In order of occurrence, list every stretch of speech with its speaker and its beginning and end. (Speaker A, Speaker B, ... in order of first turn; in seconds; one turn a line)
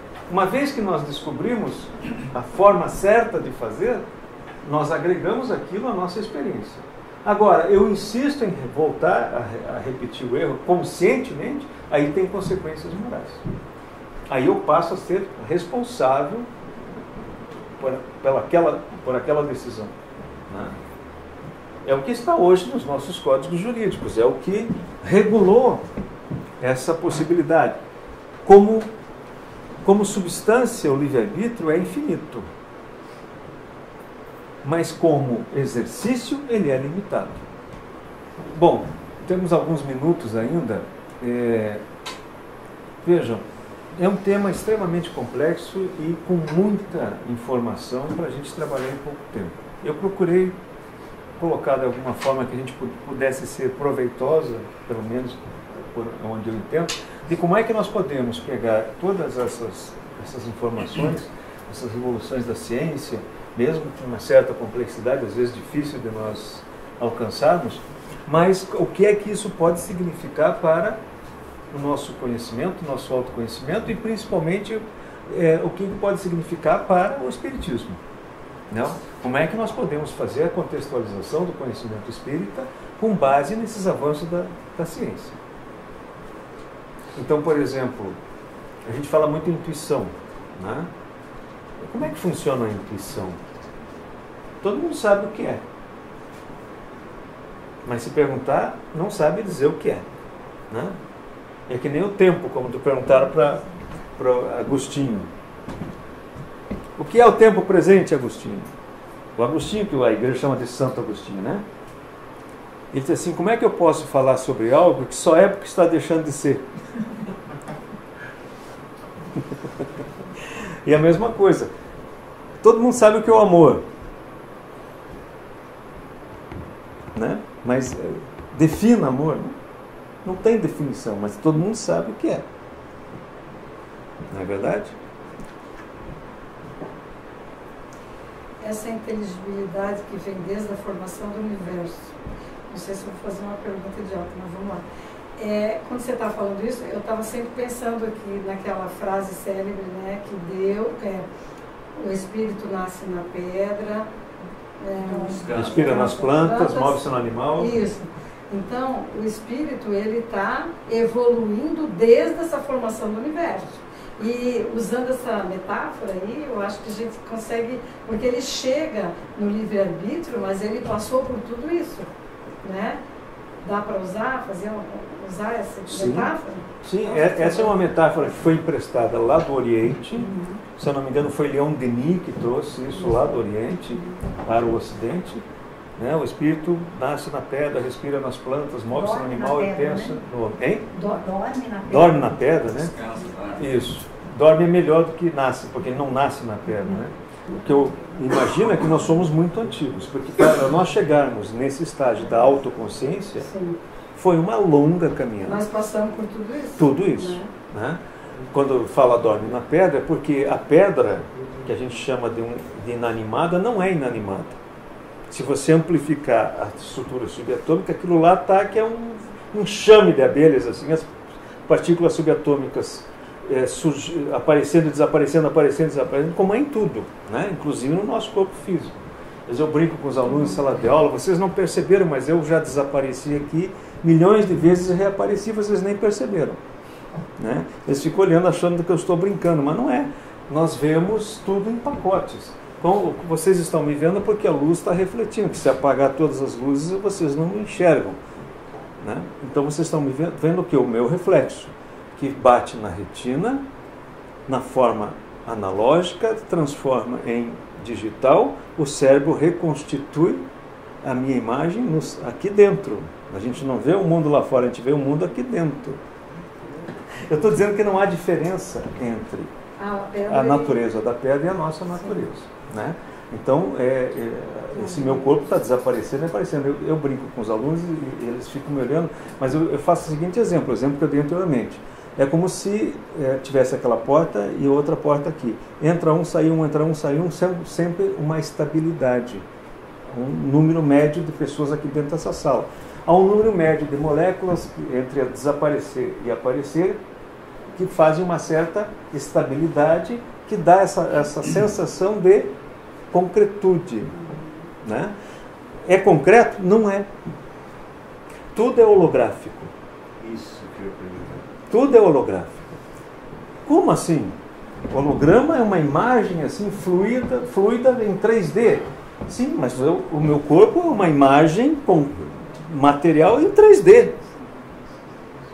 Speaker A: 0.3-4.1
Speaker A: 4.6-13.4
Speaker A: 14.3-16.5
Speaker A: 17.7-19.9
Speaker A: 20.5-20.8
Speaker A: 21.8-25.9
Speaker A: 26.6-27.8
Speaker A: 28.4-28.9
Speaker A: 29.8-32.5
Speaker A: 34.6-37.4
Speaker A: 38.5-41.8
Speaker A: 43.0-43.5
Speaker A: 44.0-50.6
Speaker A: 51.4-71.0
Speaker A: 71.7-78.0
Speaker A: 78.7-85.4
Speaker A: 87.2-88.2
Speaker A: 88.8-90.9
Speaker A: 91.8-93.4
Speaker A: 94.6-95.6
Speaker A: 97.8-100.1
Speaker A: 100.7-101.0
Speaker A: 101.7-103.6
Speaker A: 104.2-105.3
Speaker A: 107.0-108.7
Speaker A: 109.4-111.7
Speaker A: 112.9-116.7
Speaker A: 120.8-121.7
Speaker A: 122.6-123.9
Speaker A: 127.2-129.6
Speaker A: 130.2-132.4
Speaker A: 134.3-134.9
Speaker B: 138.6-142.1
Speaker B: 142.7-144.8
Speaker B: 145.4-151.3
Speaker B: 152.0-154.1
Speaker B: 154.8-157.0
Speaker C: 155.2-156.1
Speaker A: 155.5-157.7
Speaker B: 157.6-172.1
Speaker B: 172.6-173.0
Speaker B: 173.6-177.8
Speaker A: 175.8-185.4
Speaker B: 180.1-180.6
Speaker B: 183.0-183.2
Speaker B: 183.9-184.2
Speaker A: 186.0-190.9
Speaker D: 188.9-190.2
Speaker D: 190.9-192.4
Speaker A: 191.9-192.9
Speaker C: 192.8-193.7
Speaker A: 193.6-203.5
Speaker B: 203.4-203.8
Speaker A: 204.2-205.7
Speaker B: 205.4-207.5
Speaker A: 206.8-208.0
Speaker A: 208.5-214.6
Speaker A: 215.3-221.1
Speaker A: 221.7-236.6
Speaker A: 237.4-248.2
Speaker A: 249.0-253.7
Speaker A: 254.5-260.4
Speaker A: 261.0-266.0
Speaker A: 267.3-269.5
Speaker B: 269.8-270.8
Speaker A: 270.3-289.5
Speaker B: 274.8-275.2
Speaker A: 290.1-297.0
Speaker A: 297.8-302.5
Speaker A: 303.1-304.2
Speaker A: 304.8-305.1
Speaker A: 305.9-307.1
Speaker A: 308.5-309.7
Speaker C: 310.2-311.5
Speaker A: 311.7-312.6
Speaker A: 313.7-314.4
Speaker A: 314.9-324.2